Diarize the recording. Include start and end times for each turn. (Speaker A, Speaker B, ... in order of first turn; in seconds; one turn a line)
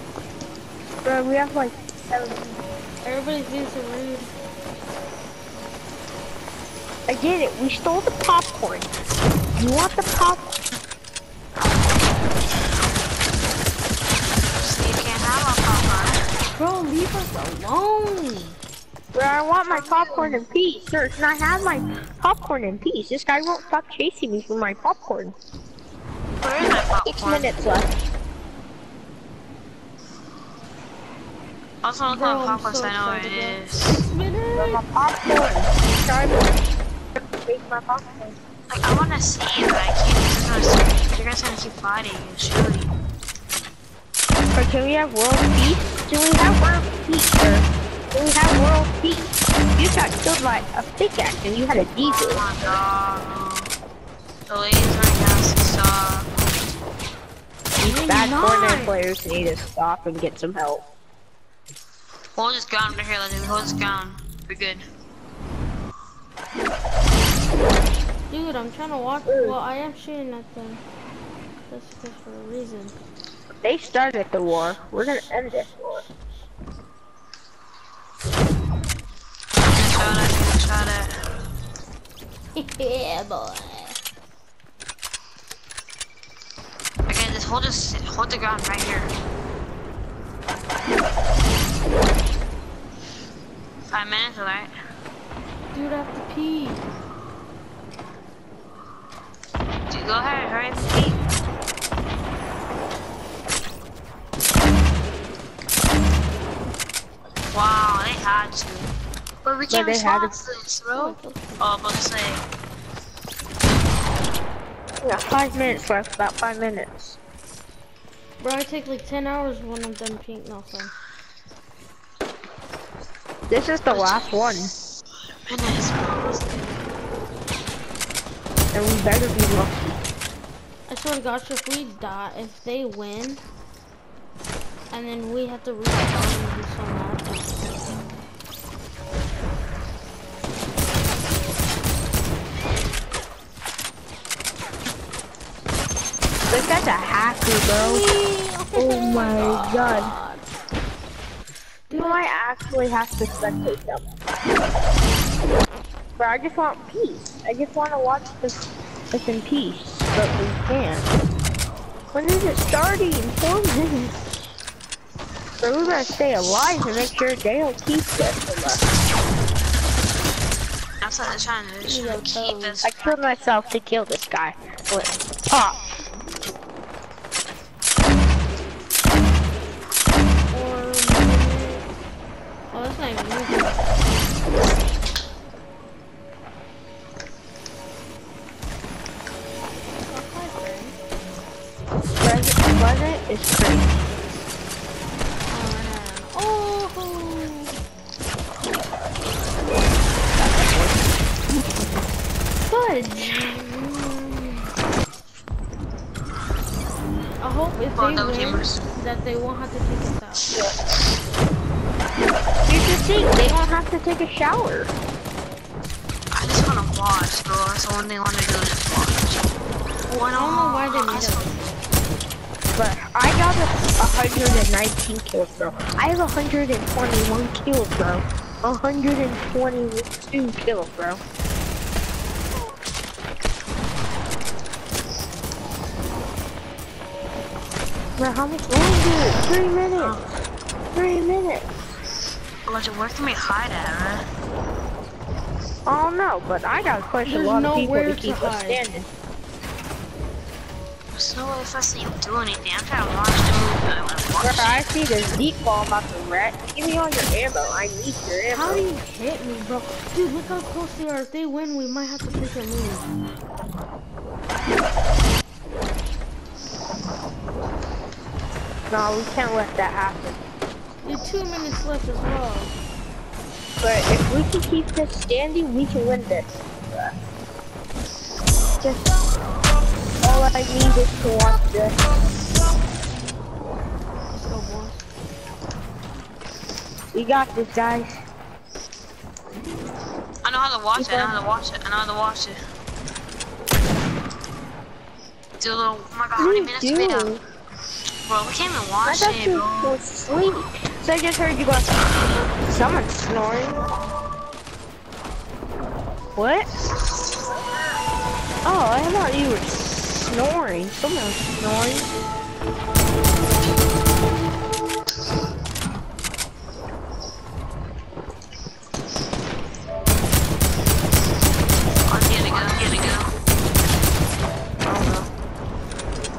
Speaker A: 1.0-2.6
Speaker B: 3.0-4.3
Speaker A: 7.1-8.9
Speaker A: 9.6-10.6
Speaker C: 14.6-16.2
Speaker B: 16.6-18.6
Speaker A: 19.1-25.4
Speaker C: 19.7-20.3
Speaker C: 26.4-27.6
Speaker A: 27.1-27.9
Speaker C: 31.8-34.0
Speaker B: 32.1-34.8
Speaker A: 34.5-36.5
Speaker A: 37.2-38.4
Speaker C: 38.7-42.9
Speaker A: 44.5-52.7
Speaker C: 52.0-53.7
Speaker C: 54.5-56.3
Speaker A: 57.8-60.9
Speaker B: 57.8-58.9
Speaker C: 62.4-64.8
Speaker B: 68.3-70.8
Speaker A: 69.3-69.6
Speaker B: 71.7-72.9
Speaker A: 73.6-76.0
Speaker C: 79.7-81.1
Speaker B: 82.6-84.0
Speaker C: 87.1-89.1
Speaker C: 93.9-94.7
Speaker B: 95.7-96.8
Speaker C: 99.9-101.2
Speaker C: 107.5-108.9
Speaker C: 109.4-112.4
Speaker A: 109.7-110.3
Speaker B: 110.9-111.7
Speaker A: 115.0-117.2
Speaker B: 118.4-120.9
Speaker A: 123.5-124.7
Speaker C: 123.9-124.7
Speaker C: 125.5-126.9
Speaker A: 128.7-130.0
Speaker B: 130.9-133.4
Speaker B: 134.9-137.5
Speaker A: 146.5-148.1
Speaker B: 147.8-150.4
Speaker A: 148.8-150.1
Speaker B: 151.9-152.2
Speaker A: 151.9-154.1
Speaker A: 156.2-158.6
Speaker A: 159.1-161.2
Speaker A: 162.1-164.2
Speaker A: 165.6-168.8
Speaker C: 171.0-173.2
Speaker B: 171.8-172.8
Speaker A: 172.8-175.8
Speaker B: 180.5-181.9
Speaker B: 182.7-183.9
Speaker B: 190.1-190.9
Speaker A: 192.2-193.9
Speaker B: 195.5-197.7
Speaker A: 200.4-200.9
Speaker B: 202.7-204.6
Speaker B: 207.4-210.6
Speaker C: 207.9-208.8
Speaker A: 212.7-214.9
Speaker C: 216.3-221.8
Speaker B: 220.3-221.7
Speaker A: 222.8-231.2
Speaker A: 238.2-240.2
Speaker C: 240.0-240.3
Speaker A: 240.9-241.7
Speaker C: 242.7-244.2
Speaker A: 245.8-249.1
Speaker B: 247.3-248.8
Speaker C: 251.2-254.9
Speaker A: 254.4-258.8
Speaker B: 258.5-263.1
Speaker A: 268.9-270.4
Speaker B: 271.0-272.7
Speaker A: 273.8-277.2
Speaker A: 278.8-279.2
Speaker A: 280.2-282.1
Speaker B: 284.3-285.1
Speaker A: 287.1-288.2
Speaker C: 290.4-292.6
Speaker A: 291.0-291.4
Speaker C: 295.6-297.4
Speaker A: 296.4-297.4
Speaker C: 298.2-300.0
Speaker A: 299.1-301.9
Speaker A: 302.6-303.8
Speaker A: 306.4-306.7
Speaker A: 308.6-312.1
Speaker C: 322.1-323.3
Speaker C: 324.9-325.1